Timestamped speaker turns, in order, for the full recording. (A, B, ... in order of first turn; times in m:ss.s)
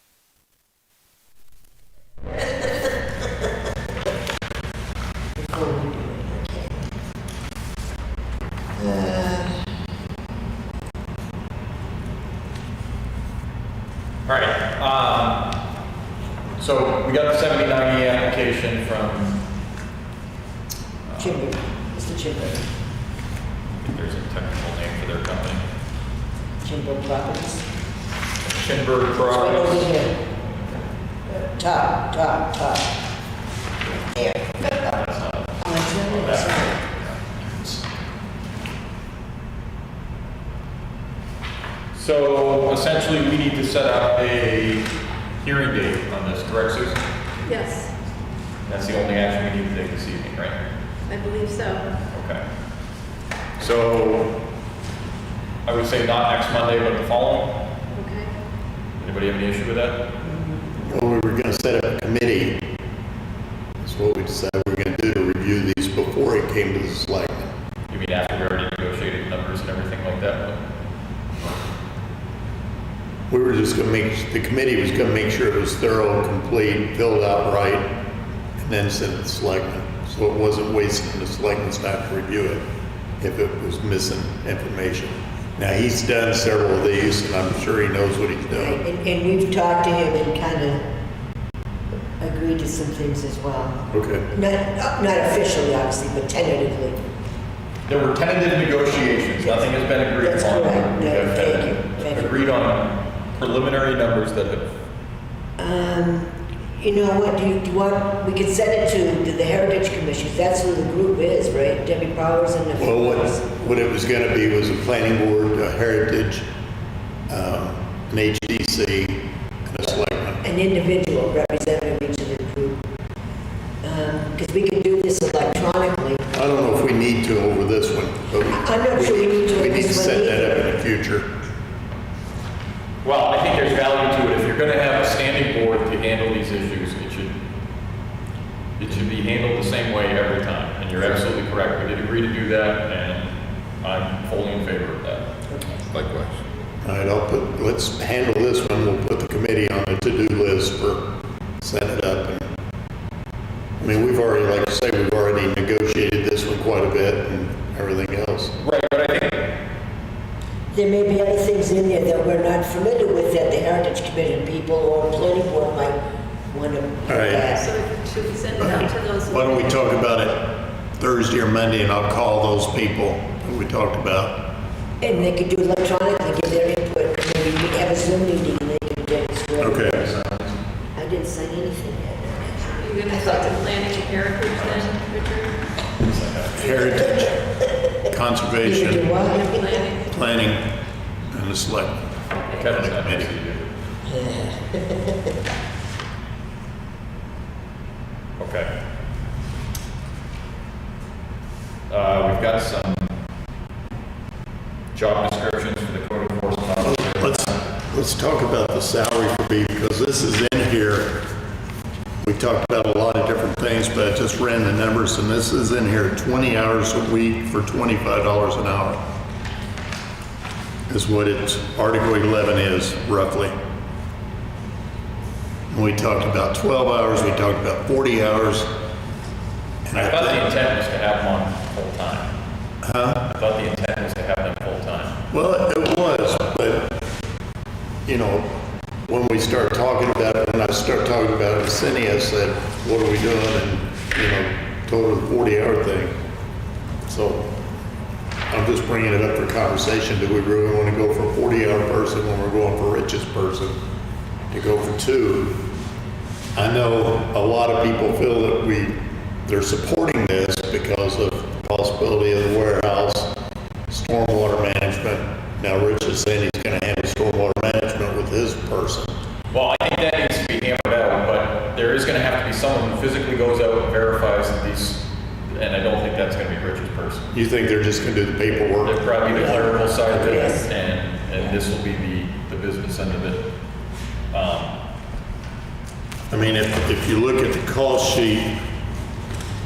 0:02.6-0:02.9 A
0:05.4-0:06.8 A
0:08.8-0:09.9 A
0:14.2-0:15.6 B
0:16.6-0:19.4 B
0:21.1-0:21.5 B
0:21.2-0:22.7 A
0:23.8-0:25.6 B
0:26.6-0:27.6 A
0:28.4-0:29.9 B
0:29.2-0:30.1 A
0:31.3-0:32.9 A
0:34.0-0:34.8 A
0:34.6-0:37.8 B
0:35.6-0:36.8 A
0:41.9-0:44.9 B
0:45.4-0:47.0 B
0:47.4-0:47.9 C
0:48.7-0:50.6 B
0:51.1-0:51.9 C
0:52.1-0:52.4 B
0:53.6-0:54.4 B
0:55.6-0:57.7 B
0:57.9-0:58.3 C
0:59.0-1:00.1 B
1:00.8-1:02.8 D
1:03.8-1:07.5 D
1:07.9-1:10.6 B
1:13.3-1:18.0 D
1:18.6-1:22.6 D
1:23.2-1:28.8 D
1:28.5-1:30.8 A
1:32.2-1:37.0 A
1:33.9-1:34.3 D
1:37.9-1:44.8 B
1:39.4-1:42.5 A
1:45.6-1:53.5 A
1:52.8-1:56.5 D
1:57.3-2:00.4 D
2:00.4-2:02.8 A
2:03.8-2:06.2 A
2:06.3-2:11.3 D
2:08.5-2:10.7 A
2:13.0-2:17.4 B
2:18.8-2:25.2 B
2:25.5-2:25.8 A
2:26.8-2:32.5 D
2:33.8-2:38.5 D
2:38.6-2:39.6 B
2:40.7-2:46.0 A
2:46.5-2:47.7 A
2:47.1-2:47.5 D
2:47.5-2:49.8 C
2:48.6-2:54.5 D
2:55.0-3:00.2 A
2:59.6-3:00.2 D
3:00.2-3:00.6 B
3:01.0-3:03.6 A
3:02.8-3:05.6 C
3:04.6-3:04.9 B
3:06.0-3:06.8 B
3:06.6-3:09.2 D
3:08.6-3:10.0 A
3:09.2-3:10.1 C
3:10.1-3:10.8 D
3:11.3-3:12.1 D
3:12.3-3:12.7 C
3:12.5-3:13.9 B
3:12.7-3:13.3 D
3:14.1-3:15.3 A
3:18.4-3:18.7 B
3:21.9-3:23.2 B
3:24.9-3:27.6 B
3:26.8-3:31.3 D
3:32.2-3:39.0 D
3:40.9-3:43.6 D
3:45.7-3:48.7 D
3:49.8-3:50.5 D
3:50.0-3:52.3 B
3:52.8-3:53.3 D
3:53.3-3:55.2 B
3:55.3-3:57.1 D
3:58.1-4:06.2 D
4:07.0-4:07.5 D
4:08.5-4:13.8 D
4:14.5-4:15.6 D
4:16.6-4:23.4 D
4:23.9-4:29.2 D
4:29.5-4:37.3 B
4:37.3-4:39.7 D
4:38.8-4:43.5 B
4:39.3-4:40.7 A
4:44.3-4:44.8 B
4:46.3-4:48.6 D